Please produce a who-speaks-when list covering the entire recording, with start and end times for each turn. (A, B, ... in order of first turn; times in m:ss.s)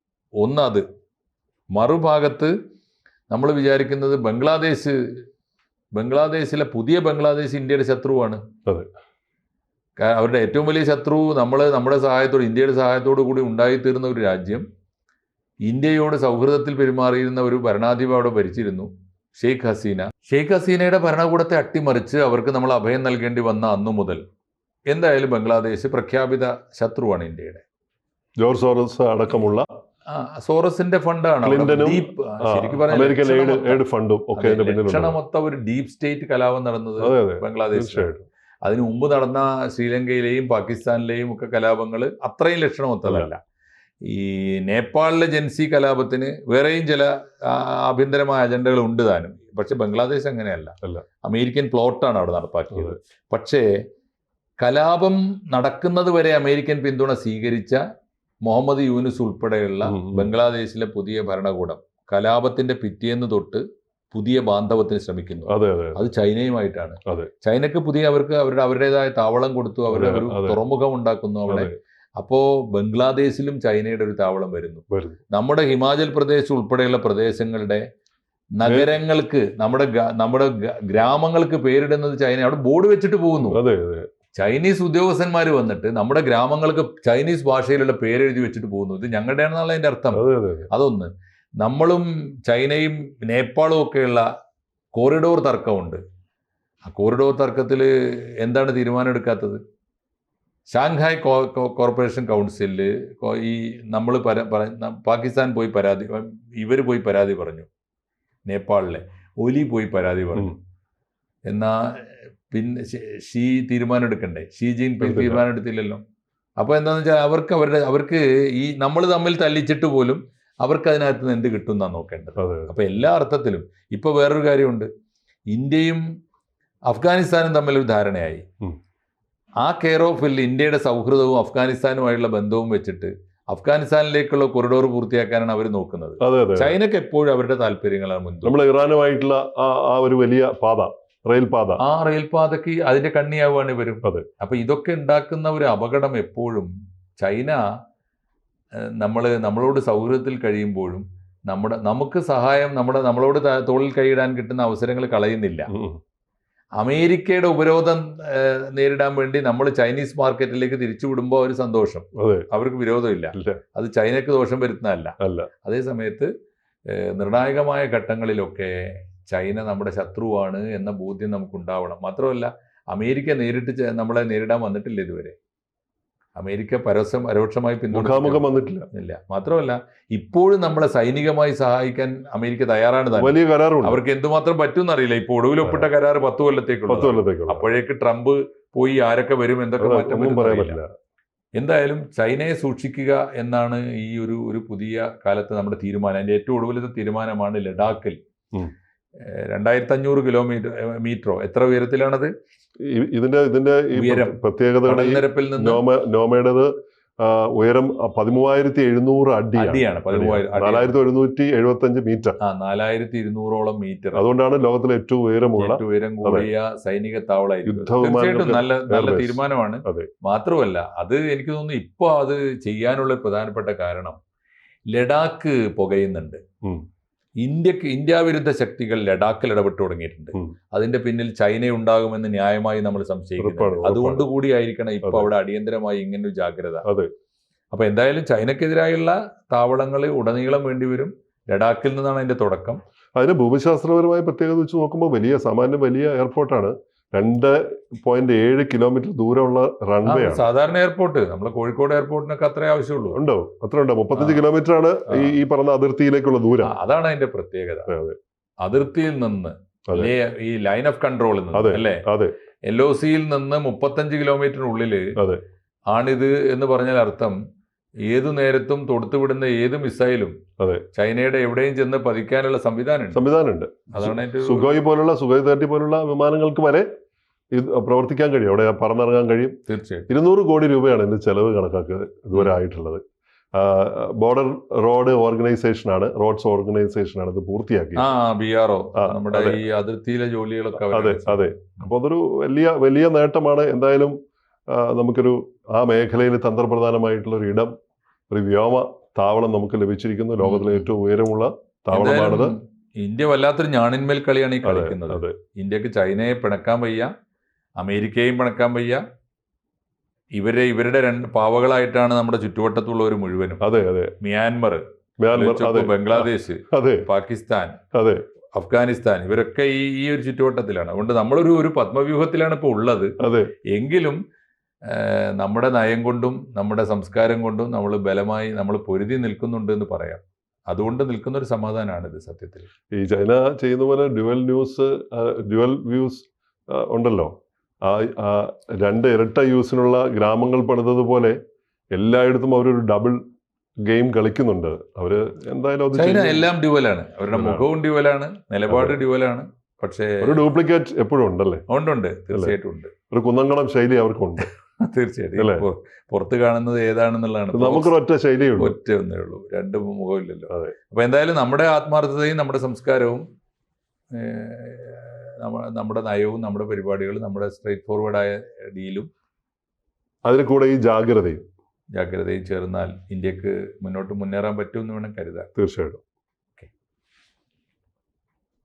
0:00.4-0:00.8 A
0:01.7-0:02.5 A
0:03.3-0:05.0 A
0:06.0-0:08.4 A
0:10.0-0:14.6 A
0:15.6-0:24.2 A
0:24.9-0:27.6 A
0:28.4-0:29.6 B
0:30.1-0:33.8 A
0:31.4-0:35.2 B
0:34.4-0:38.1 A
0:37.0-0:38.2 B
0:38.6-0:43.4 A
0:43.0-0:43.3 B
0:44.0-0:53.7 A
0:54.6-0:57.8 A
0:58.4-1:17.8 A
0:59.8-1:00.3 B
1:05.5-1:06.0 B
1:09.9-1:10.6 B
1:11.5-1:11.7 B
1:14.9-1:15.2 B
1:18.6-1:23.6 A
1:18.6-1:18.9 B
1:23.5-1:24.1 B
1:24.4-1:34.2 A
1:30.1-1:30.7 B
1:34.9-1:36.0 A
1:36.9-1:39.6 A
1:40.7-1:47.7 A
1:48.5-1:50.5 A
1:51.5-1:56.0 A
1:55.0-1:55.4 B
1:56.6-2:04.9 A
2:02.4-2:02.7 B
2:05.5-2:06.0 A
2:06.9-2:08.4 A
2:09.6-2:18.6 A
2:16.2-2:16.7 B
2:18.4-2:21.8 B
2:21.8-2:27.6 A
2:29.0-2:35.7 A
2:35.7-2:36.0 B
2:36.8-2:46.3 A
2:42.2-2:42.5 B
2:43.3-2:43.6 B
2:45.2-2:45.5 B
2:46.9-2:55.4 A
2:56.4-3:10.8 A
2:57.9-2:58.8 B
3:03.2-3:04.0 B
3:06.9-3:07.7 B
3:09.8-3:10.9 B
3:11.6-3:18.2 A
3:19.2-3:22.3 A
3:22.8-3:26.7 B
3:23.9-3:25.8 A
3:27.2-3:32.4 B
3:29.6-3:30.9 A
3:32.4-3:34.2 A
3:34.1-3:36.5 B
3:35.6-3:44.2 A
3:37.6-3:40.1 B
3:44.9-3:46.4 A
3:47.4-3:56.8 A
3:53.4-3:54.2 B
3:55.0-3:55.3 B
3:56.8-3:57.1 B
3:57.7-4:02.8 A
4:03.2-4:10.4 B
4:10.0-4:13.2 A
4:13.1-4:16.7 B
4:14.2-4:14.4 A
4:16.6-4:17.9 A
4:17.9-4:18.2 B
4:18.6-4:22.0 A
4:21.5-4:22.3 B
4:22.7-4:25.1 A
4:25.2-4:25.4 B
4:25.9-4:27.4 A
4:28.1-4:30.4 A
4:30.9-4:33.2 A
4:33.1-4:36.9 B
4:33.9-4:34.8 A
4:37.5-4:39.6 B
4:39.7-4:40.1 A
4:40.1-4:43.0 B
4:43.5-4:48.0 B
4:48.0-4:51.8 A
4:49.0-4:49.6 B
4:50.8-4:54.2 B
4:54.7-4:57.7 B
4:58.3-5:02.5 B
5:00.4-5:00.9 A
5:01.9-5:07.1 A
5:04.6-5:05.4 B
5:07.8-5:09.0 A
5:10.4-5:13.6 A
5:13.6-5:14.1 B
5:14.2-5:17.8 A
5:15.2-5:17.0 B
5:17.9-5:18.2 B
5:18.5-5:23.1 A
5:23.2-5:23.5 B
5:23.7-5:24.2 A
5:24.9-5:32.7 A
5:32.9-5:37.3 B
5:37.8-5:41.4 B
5:42.0-5:43.2 B
5:43.8-5:46.5 B
5:45.9-5:50.4 A
5:47.3-5:47.7 B
5:48.7-5:49.0 B
5:50.2-5:51.6 B
5:51.7-5:52.9 A
5:53.1-5:54.5 B
5:54.8-5:57.9 A
5:55.4-5:55.6 B
5:57.5-5:58.7 B
5:58.6-6:03.2 A
6:04.1-6:09.1 A
6:10.2-6:11.4 B
6:11.9-6:15.5 A
6:15.6-6:16.0 B